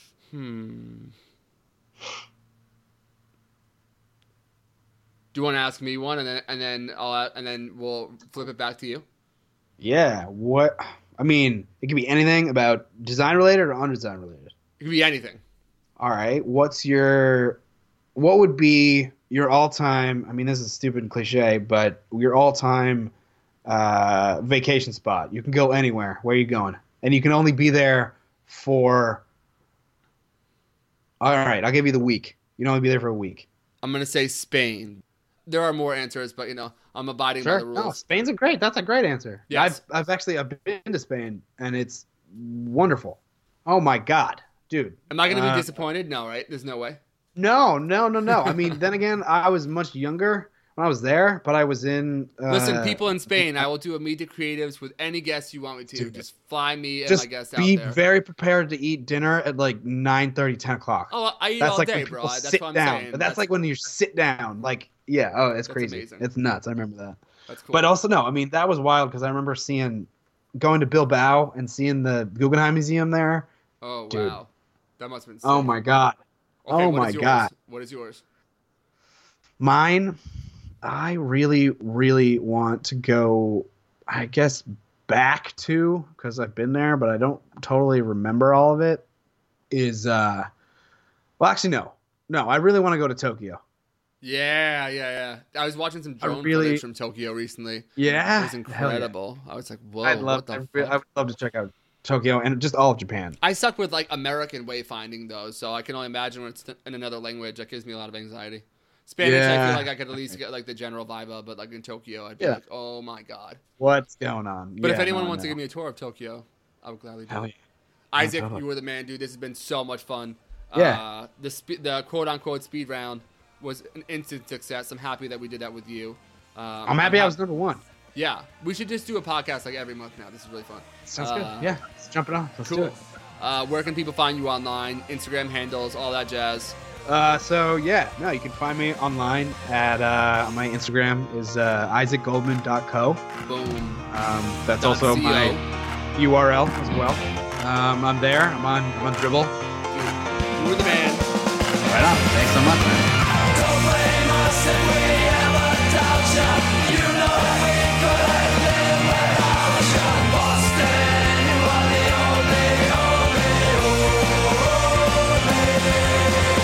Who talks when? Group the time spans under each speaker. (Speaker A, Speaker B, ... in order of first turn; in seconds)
Speaker A: 0.3-1.1, 5.3-9.0, 14.8-15.4, 33.8-38.0, 39.5-39.8, 45.1-47.0, 48.4-48.8, 52.5-58.0, 61.1-63.5, 65.7-66.2, 67.5-67.9, 73.8-75.8, 76.6-78.2, 94.2-101.0, 103.4-113.6, 114.8-117.5, 118.1-127.4, 128.1-131.8, 132.7-136.8, 143.4-144.1, 144.8-145.6, 149.9-151.2
Speaker B: 9.8-14.5, 16.0-17.6, 18.1-23.1, 23.6-29.2, 31.2-33.5, 37.4-45.7, 47.4-53.6, 56.0-56.2, 57.1-67.2, 67.7-73.5, 74.1-74.4, 75.4-77.5, 79.6-80.2, 80.8-89.0, 89.7-90.5, 91.4-93.6, 96.2-96.8, 98.0-99.1, 100.0-103.4, 109.2-110.3, 113.8-115.6, 117.3-117.5, 118.2-118.6, 120.7-121.0, 126.8-127.8, 131.1-132.9, 137.0-143.2, 144.1-145.6, 146.1-149.5, 151.8-153.1
Speaker C: 153.5-166.5